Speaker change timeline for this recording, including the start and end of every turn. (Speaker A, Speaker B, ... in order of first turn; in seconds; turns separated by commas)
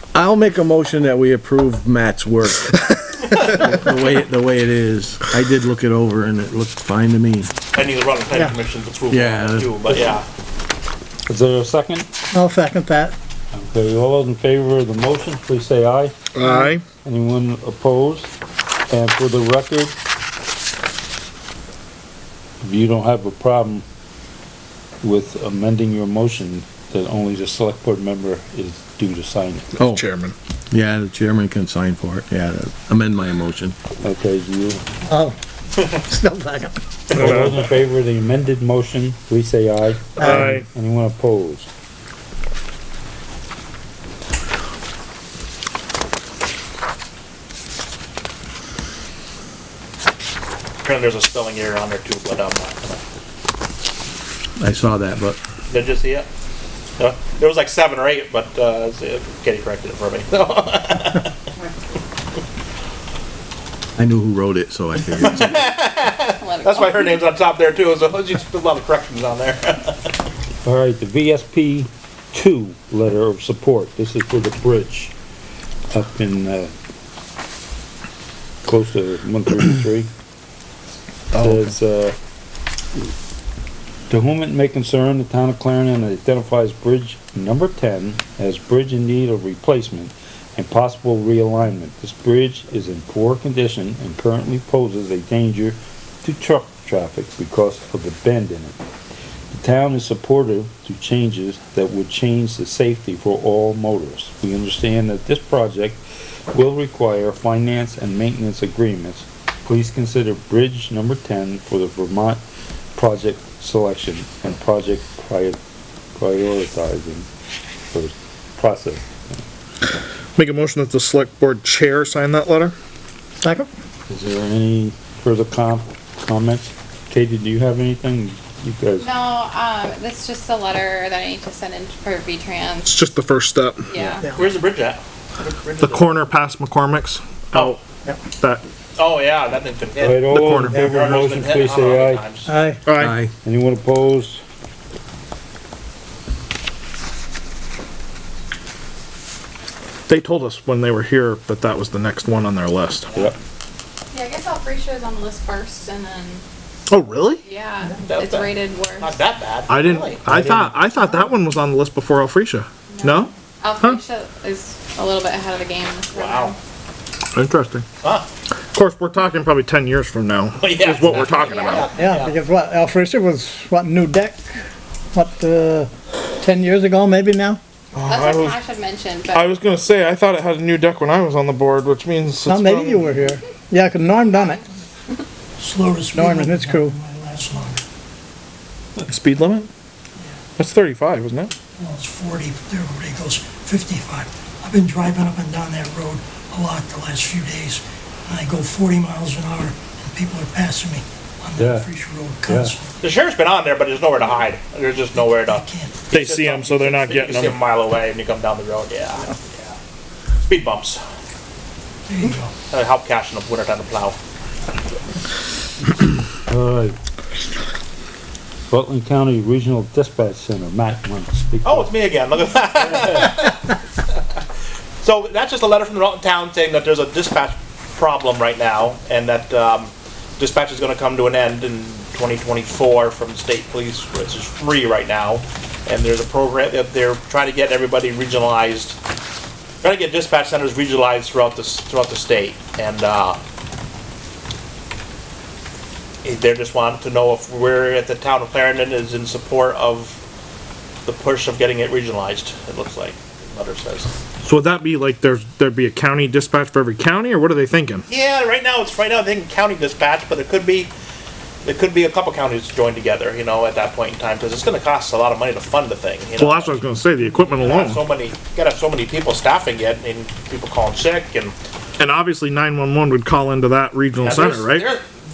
Speaker A: 0.1-7.5, Speaker B: 3.3-3.7, Speaker B: 7.7-10.2, Speaker A: 9.1-9.8, Speaker C: 11.3-12.1, Speaker D: 12.3-13.1, Speaker C: 13.5-16.1, Speaker E: 16.3-16.8, Speaker C: 17.0-18.3, Speaker C: 18.9-19.9, Speaker C: 22.6-23.8, Speaker C: 25.0-29.7, Speaker A: 29.8-30.1, Speaker E: 29.9-30.3, Speaker A: 30.7-33.7, Speaker C: 34.0-34.8, Speaker D: 36.1-36.7, Speaker F: 36.2-36.5, Speaker B: 37.1-37.4, Speaker C: 37.1-41.7, Speaker E: 37.1-37.6, Speaker E: 40.2-40.6, Speaker B: 50.8-53.0, Speaker A: 54.6-55.4, Speaker B: 55.7-56.3, Speaker B: 57.0-61.3, Speaker A: 64.0-65.7, Speaker B: 65.2-70.1, Speaker G: 66.4-67.3, Speaker C: 70.6-75.1, Speaker C: 75.9-76.7, Speaker C: 78.6-80.1, Speaker C: 81.3-82.1, Speaker A: 81.4-81.7, Speaker C: 84.1-98.8, Speaker C: 99.5-112.4, Speaker C: 112.9-115.6, Speaker C: 116.2-117.3, Speaker C: 117.9-119.4, Speaker E: 120.3-122.7, Speaker C: 124.1-129.1, Speaker G: 129.0-133.0, Speaker E: 132.8-133.9, Speaker G: 133.9-134.3, Speaker B: 134.2-136.1, Speaker E: 135.8-137.8, Speaker E: 138.4-138.6, Speaker B: 139.0-142.5, Speaker C: 140.0-142.2, Speaker E: 140.3-140.8, Speaker D: 142.5-142.8, Speaker E: 142.8-143.2, Speaker A: 143.0-143.3, Speaker C: 143.4-144.4, Speaker E: 150.1-153.1, Speaker G: 154.1-156.4, Speaker E: 156.9-157.4, Speaker G: 157.4-159.2, Speaker B: 157.8-160.2, Speaker E: 159.7-164.0, Speaker C: 160.3-160.7, Speaker G: 162.9-166.6, Speaker B: 166.1-166.5, Speaker E: 167.3-167.8, Speaker B: 168.0-168.3, Speaker E: 168.7-171.9, Speaker B: 170.6-172.3, Speaker G: 171.3-171.9, Speaker D: 172.0-174.6, Speaker D: 175.1-175.9, Speaker D: 176.4-177.6, Speaker E: 177.9-178.6, Speaker G: 178.0-179.6, Speaker E: 179.3-183.2, Speaker D: 182.5-184.4, Speaker F: 185.6-187.8, Speaker D: 186.1-187.0, Speaker E: 189.0-189.7, Speaker E: 190.6-191.5, Speaker F: 191.8-202.9, Speaker C: 201.6-201.9, Speaker C: 202.5-202.8, Speaker B: 203.0-209.7, Speaker F: 205.2-205.9, Speaker E: 206.1-207.6, Speaker B: 210.5-211.0, Speaker F: 212.1-212.5, Speaker B: 212.6-214.2, Speaker C: 216.5-216.9, Speaker C: 218.7-221.9, Speaker B: 221.6-223.8, Speaker B: 225.0-239.0, Speaker B: 239.8-243.4, Speaker B: 246.2-250.2, Speaker B: 251.1-254.1, Speaker E: 254.4-258.1, Speaker B: 258.1-260.9, Speaker B: 261.6-266.8, Speaker E: 266.4-268.0, Speaker B: 267.5-271.5, Speaker E: 272.0-274.9, Speaker B: 274.2-275.1